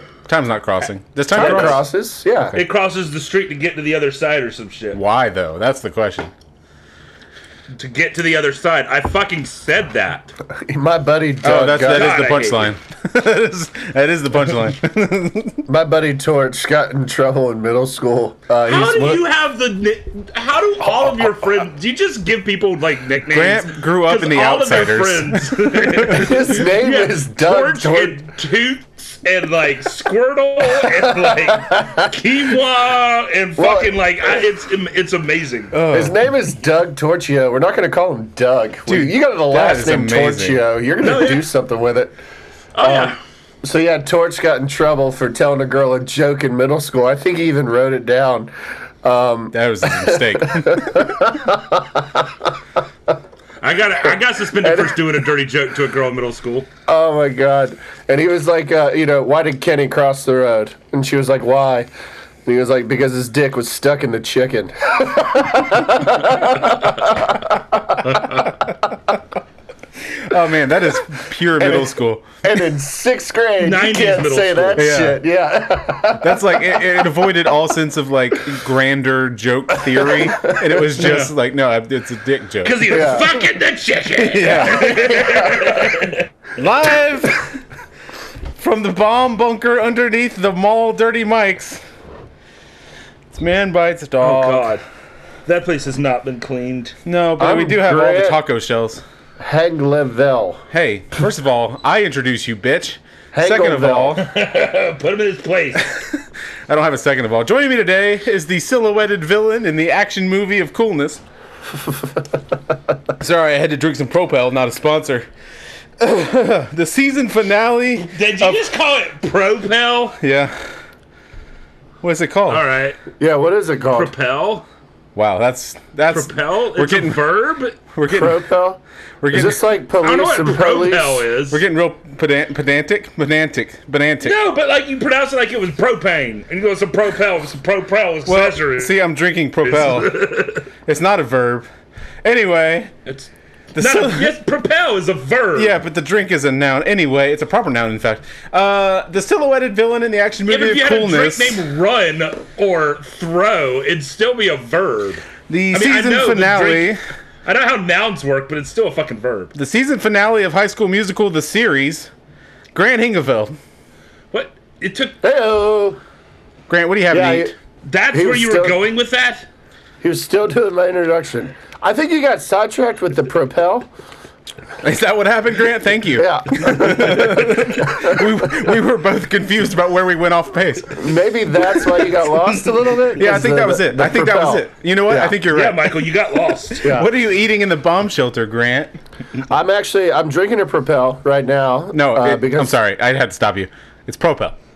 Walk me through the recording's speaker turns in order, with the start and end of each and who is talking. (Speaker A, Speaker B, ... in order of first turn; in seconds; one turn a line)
Speaker A: 0.3-1.8
Speaker B: 1.4-2.6
Speaker C: 1.4-1.8
Speaker C: 2.6-5.0
Speaker A: 4.9-6.3
Speaker C: 7.7-10.3
Speaker B: 10.6-12.2
Speaker A: 11.4-15.6
Speaker C: 11.8-12.7
Speaker B: 15.7-19.2
Speaker C: 18.6-35.7
Speaker A: 23.3-26.2
Speaker B: 26.0-28.2
Speaker B: 30.8-32.1
Speaker B: 33.6-34.3
Speaker A: 35.7-36.2
Speaker B: 35.9-42.1
Speaker A: 38.9-40.6
Speaker C: 41.0-41.5
Speaker C: 42.8-43.2
Speaker B: 42.8-48.5
Speaker B: 49.0-52.5
Speaker A: 49.5-51.2
Speaker C: 53.6-56.7
Speaker B: 54.6-55.2
Speaker B: 56.9-61.9
Speaker B: 62.5-68.4
Speaker A: 70.1-72.2
Speaker B: 71.6-77.0
Speaker C: 73.6-74.9
Speaker A: 74.8-75.2
Speaker A: 76.2-83.0
Speaker B: 79.9-80.9
Speaker C: 81.0-81.3
Speaker C: 82.6-86.2
Speaker B: 82.9-83.4
Speaker A: 84.2-85.6
Speaker B: 84.8-85.4
Speaker A: 86.6-87.6
Speaker A: 88.6-91.8
Speaker A: 93.3-94.7
Speaker C: 94.2-94.8
Speaker C: 95.5-97.0
Speaker A: 97.0-99.0
Speaker B: 97.4-98.4
Speaker B: 99.4-100.6
Speaker A: 100.7-104.2
Speaker B: 103.3-104.2
Speaker C: 104.2-105.9
Speaker A: 106.7-111.2
Speaker A: 113.2-115.3
Speaker A: 116.0-118.6
Speaker C: 118.0-120.2
Speaker A: 120.2-120.5
Speaker A: 122.0-122.6
Speaker C: 122.5-123.0
Speaker B: 123.2-124.1
Speaker C: 123.9-124.7
Speaker A: 125.2-127.3
Speaker C: 126.1-127.8
Speaker A: 127.9-128.4
Speaker B: 128.1-128.8
Speaker A: 129.2-129.6
Speaker B: 129.3-131.3
Speaker C: 130.0-131.6
Speaker A: 131.5-134.4
Speaker C: 134.2-139.0
Speaker A: 138.3-140.2
Speaker C: 139.6-140.6
Speaker A: 140.8-141.7
Speaker A: 142.2-142.9
Speaker C: 143.1-145.8
Speaker A: 143.8-144.3
Speaker A: 145.6-151.7
Speaker C: 150.5-159.5
Speaker A: 155.5-157.0
Speaker A: 159.6-162.1
Speaker A: 162.7-163.6
Speaker C: 164.3-165.2
Speaker B: 165.2-166.0
Speaker A: 166.7-167.5
Speaker B: 167.1-167.5
Speaker C: 167.8-169.5
Speaker B: 168.1-168.8
Speaker B: 170.0-173.9
Speaker A: 174.8-181.1
Speaker B: 176.2-178.3
Speaker B: 180.9-185.4
Speaker A: 183.2-185.9
Speaker C: 185.5-186.9
Speaker B: 186.8-187.1
Speaker A: 186.8-189.0
Speaker B: 189.5-192.8
Speaker A: 191.9-194.6